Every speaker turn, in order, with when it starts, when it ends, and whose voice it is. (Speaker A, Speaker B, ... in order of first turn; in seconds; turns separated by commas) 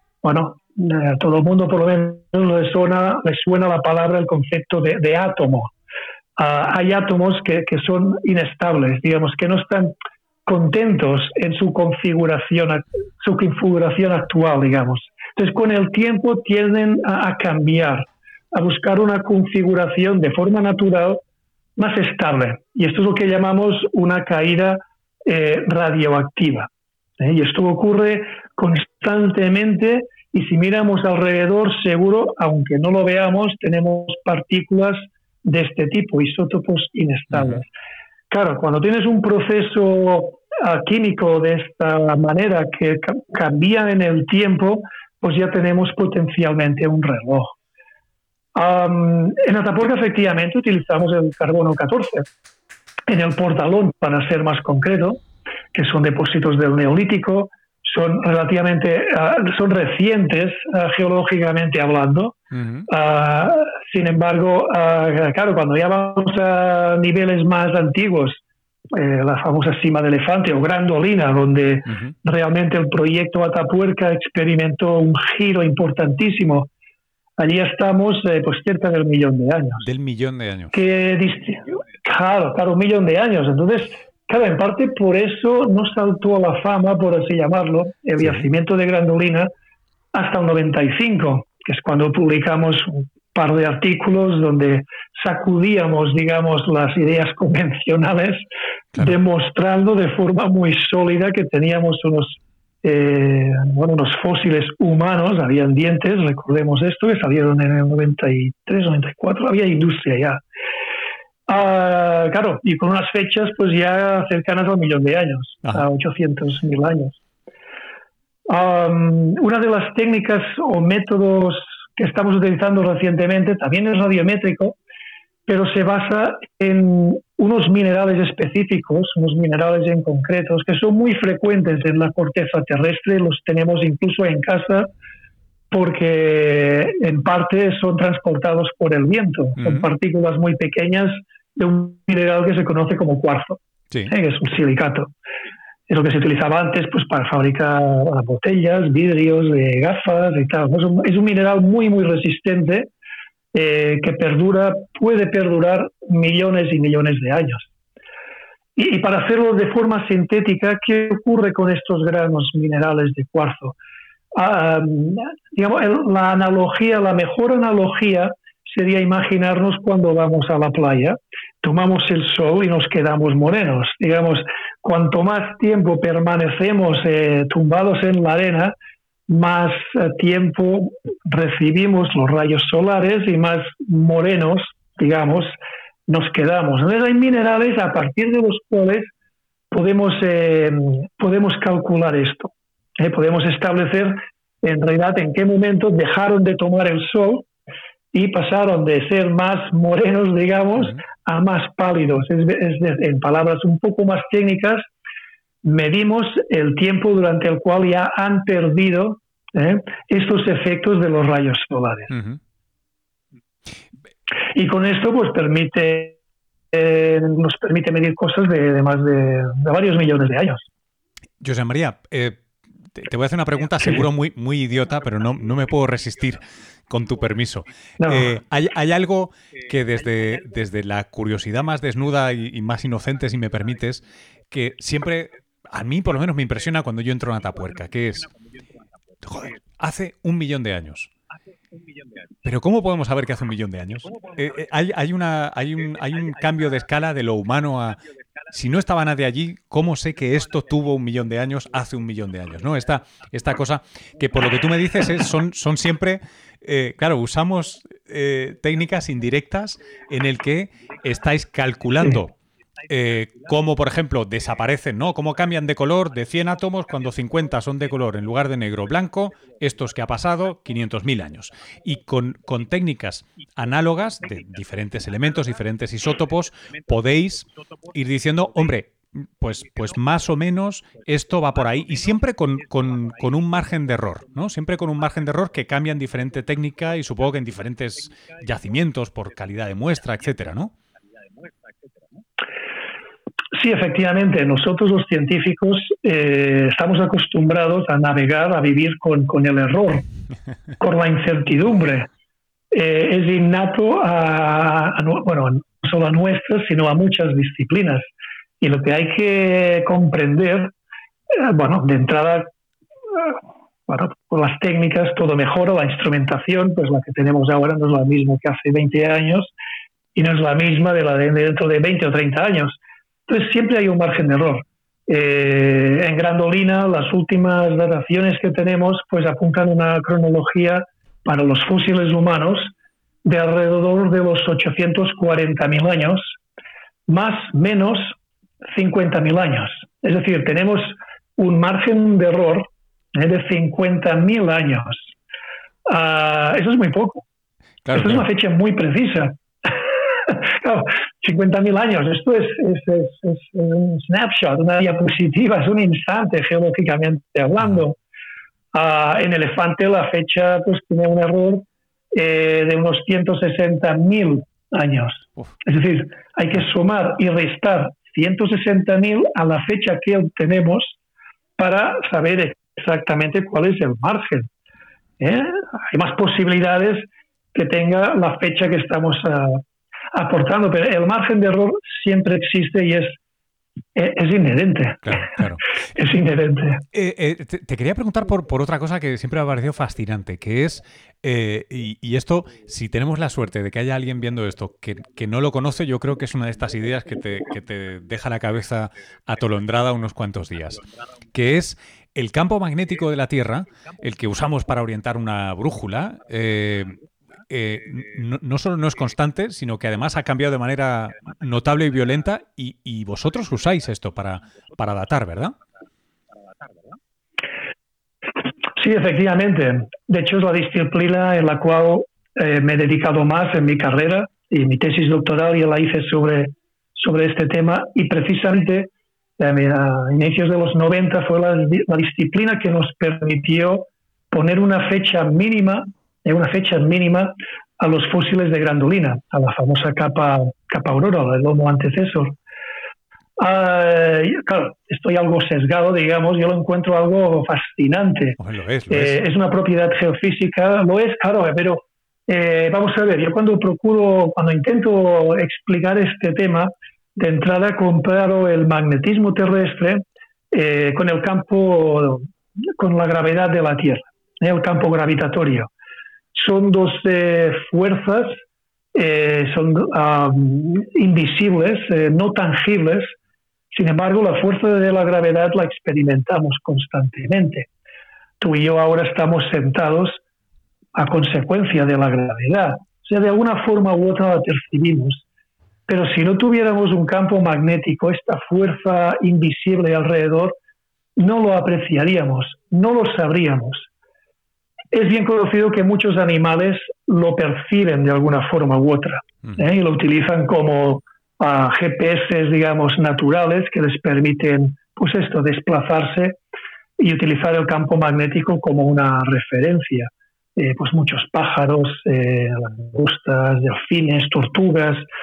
Speaker A: 0.2-5.7, Speaker A: 6.4-9.9, Speaker A: 10.4-21.2, Speaker A: 21.8-37.7, Speaker B: 37.3-37.6, Speaker A: 38.3-47.5, Speaker A: 48.5-52.3, Speaker A: 53.1-55.2, Speaker A: 55.7-62.4, Speaker B: 62.5-62.9, Speaker A: 62.9-68.4, Speaker A: 68.9-76.7, Speaker A: 77.4-79.8, Speaker B: 79.8-80.8, Speaker A: 80.7-89.5, Speaker A: 90.1-98.4, Speaker A: 99.0-110.4, Speaker A: 111.5-117.2, Speaker A: 118.5-124.8, Speaker A: 125.5-134.9, Speaker A: 135.7-145.1, Speaker B: 139.6-139.8, Speaker A: 145.9-152.9, Speaker A: 153.5-157.7, Speaker A: 158.8-163.8, Speaker A: 164.3-178.7, Speaker A: 179.3-189.1, Speaker A: 189.7-197.5, Speaker A: 198.1-204.9, Speaker A: 205.6-212.1, Speaker B: 212.1-212.4, Speaker A: 214.5-216.2, Speaker A: 216.7-220.7, Speaker B: 221.4-222.4, Speaker B: 222.9-238.3, Speaker A: 228.0-228.3, Speaker B: 239.2-241.1, Speaker B: 242.4-262.3, Speaker B: 262.9-290.7, Speaker A: 293.5-300.1, Speaker A: 300.8-302.1, Speaker A: 302.7-308.1, Speaker A: 308.6-310.7, Speaker A: 311.3-312.5, Speaker A: 313.1-319.5, Speaker A: 320.1-332.7, Speaker A: 333.2-336.3, Speaker A: 337.1-338.1, Speaker A: 338.7-345.1, Speaker A: 345.9-347.2, Speaker B: 347.8-348.2, Speaker A: 347.9-357.9, Speaker A: 358.7-370.9, Speaker A: 371.6-374.5, Speaker A: 375.2-379.6, Speaker A: 380.1-383.2, Speaker A: 383.9-385.4, Speaker B: 385.0-385.6, Speaker A: 385.9-386.8, Speaker B: 386.9-407.0, Speaker B: 407.5-415.5, Speaker A: 418.8-442.3, Speaker A: 443.4-448.4, Speaker B: 448.4-449.2, Speaker A: 448.9-462.2, Speaker A: 462.8-465.7, Speaker A: 466.3-468.4, Speaker A: 468.9-473.1, Speaker A: 473.7-477.7, Speaker A: 478.4-480.2, Speaker A: 480.9-485.2, Speaker A: 485.9-490.6, Speaker A: 491.2-493.9, Speaker A: 494.9-506.4, Speaker A: 507.0-515.0